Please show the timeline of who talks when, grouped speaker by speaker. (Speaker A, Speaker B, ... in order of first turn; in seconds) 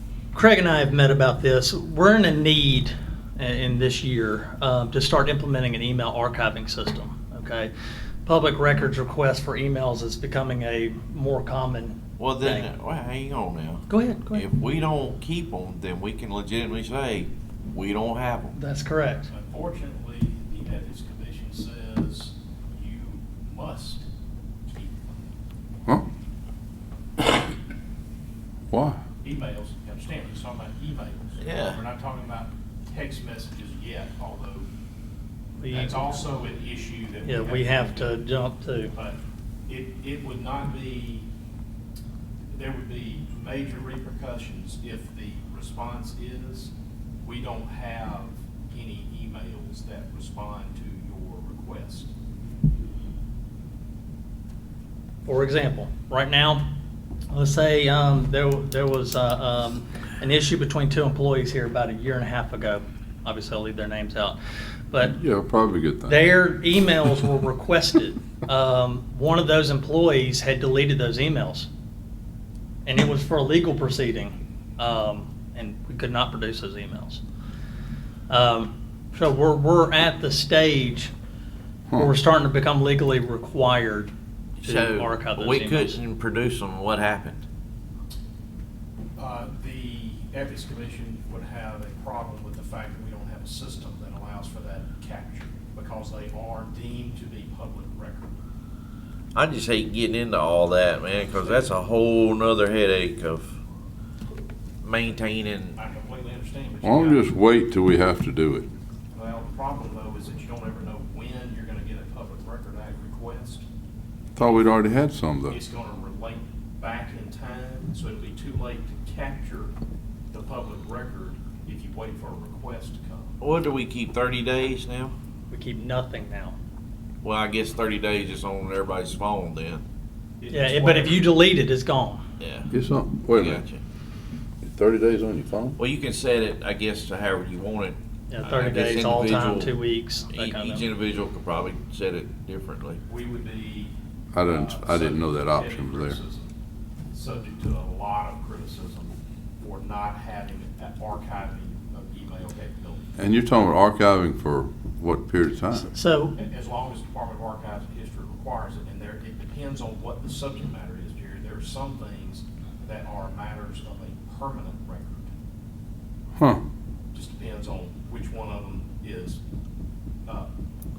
Speaker A: 0.3-7.7, 8.2-12.7, 13.9-14.5, 18.6-19.3, 35.6-36.2, 37.2-38.9, 55.2-56.7, 57.3-64.4, 64.9-65.2, 66.1-71.7, 72.8-77.2, 78.3-81.1, 81.9-84.1, 84.6-86.0, 125.5-126.6, 130.5-132.2, 138.3-140.9, 155.7-156.4
Speaker B: 12.2-18.6, 31.4-31.8, 84.6-87.4, 99.3-103.5, 104.8-105.8, 123.4-125.1, 127.2-129.8, 132.4-132.7, 133.3-133.8, 135.8-139.8, 140.3-143.0
Speaker C: 19.3-24.1, 24.7-25.3, 29.2-34.7, 35.7-38.1, 38.9-41.3, 42.5-52.1, 89.2-98.3, 105.8-107.3, 109.1-113.7, 114.4-114.8, 115.5-119.7, 120.3-123.3, 130.4-131.4, 143.1-143.9, 144.5-146.5, 147.1-153.1, 156.4-165.3, 167.1-169.4, 170.2-170.5
Speaker D: 28.7-29.0, 65.0-66.2, 106.8-108.7, 114.4-115.6, 132.7-133.6, 134.6-135.8, 144.3-146.2, 153.2-155.9